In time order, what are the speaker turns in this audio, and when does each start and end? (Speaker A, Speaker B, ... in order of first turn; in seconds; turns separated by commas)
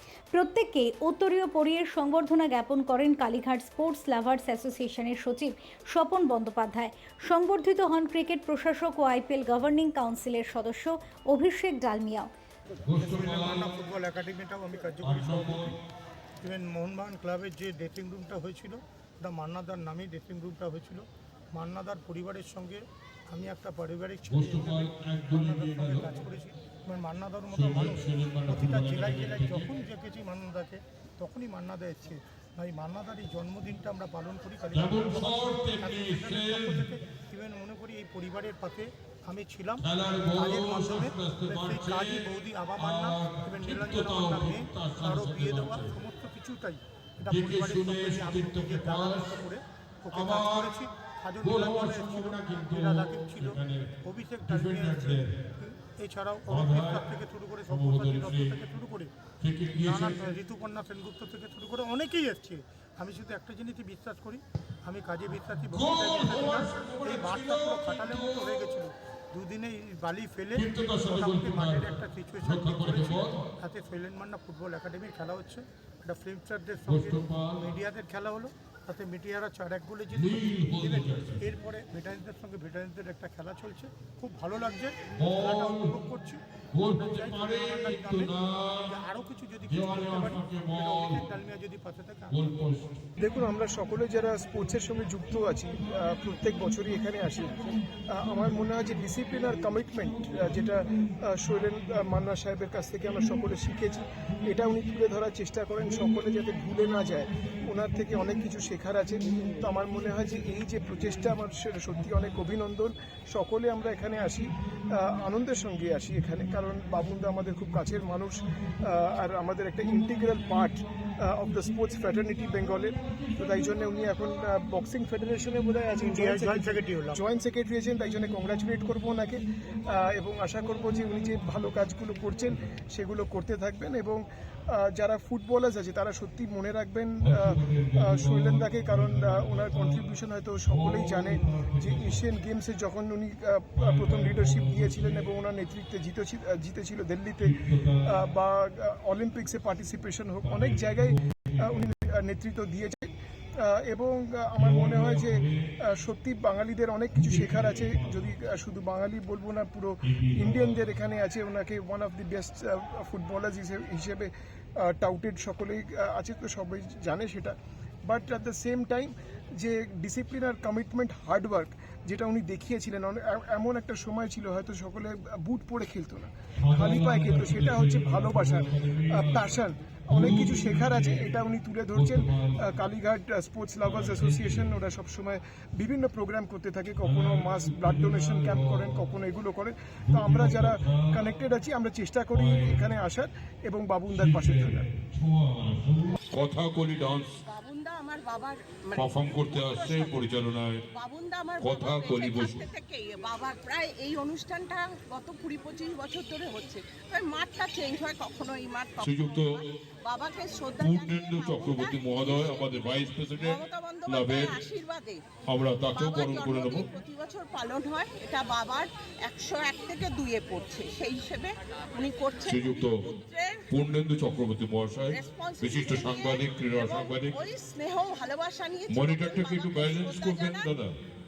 Speaker A: 0.3-12.3, Speaker B: 12.9-13.8, Speaker C: 12.9-15.8, Speaker B: 15.0-15.8, Speaker C: 16.4-59.1, Speaker B: 24.3-26.1, Speaker B: 27.5-29.7, Speaker B: 34.7-36.9, Speaker B: 39.8-45.9, Speaker B: 47.2-49.4, Speaker B: 50.1-50.8, Speaker B: 51.4-55.3, Speaker B: 56.5-57.0, Speaker B: 57.7-58.6, Speaker B: 59.4-60.3, Speaker C: 59.7-92.5, Speaker B: 65.6-68.8, Speaker B: 70.5-73.5, Speaker B: 76.9-77.7, Speaker B: 80.1-81.4, Speaker B: 85.2-86.0, Speaker B: 86.7-88.9, Speaker B: 89.7-91.2, Speaker B: 92.3-93.1, Speaker D: 93.2-194.9, Speaker C: 126.0-127.2, Speaker B: 137.2-140.0, Speaker B: 140.7-142.2, Speaker B: 143.8-145.3, Speaker B: 147.4-148.2, Speaker B: 150.4-151.9, Speaker B: 154.6-155.6, Speaker B: 157.2-158.3, Speaker B: 160.1-160.8, Speaker B: 176.6-179.5, Speaker B: 180.1-181.4, Speaker B: 181.9-182.7, Speaker B: 183.8-184.7, Speaker B: 187.0-189.0, Speaker B: 190.1-191.2, Speaker B: 192.3-192.9, Speaker B: 194.1-197.4, Speaker E: 197.4-200.3, Speaker B: 198.9-200.8, Speaker E: 200.9-215.3, Speaker B: 201.6-202.6, Speaker B: 209.0-209.6, Speaker B: 210.8-214.6, Speaker B: 215.5-216.9, Speaker E: 215.9-223.8, Speaker B: 222.5-223.0, Speaker B: 223.7-227.4, Speaker E: 225.1-230.7, Speaker B: 228.9-230.9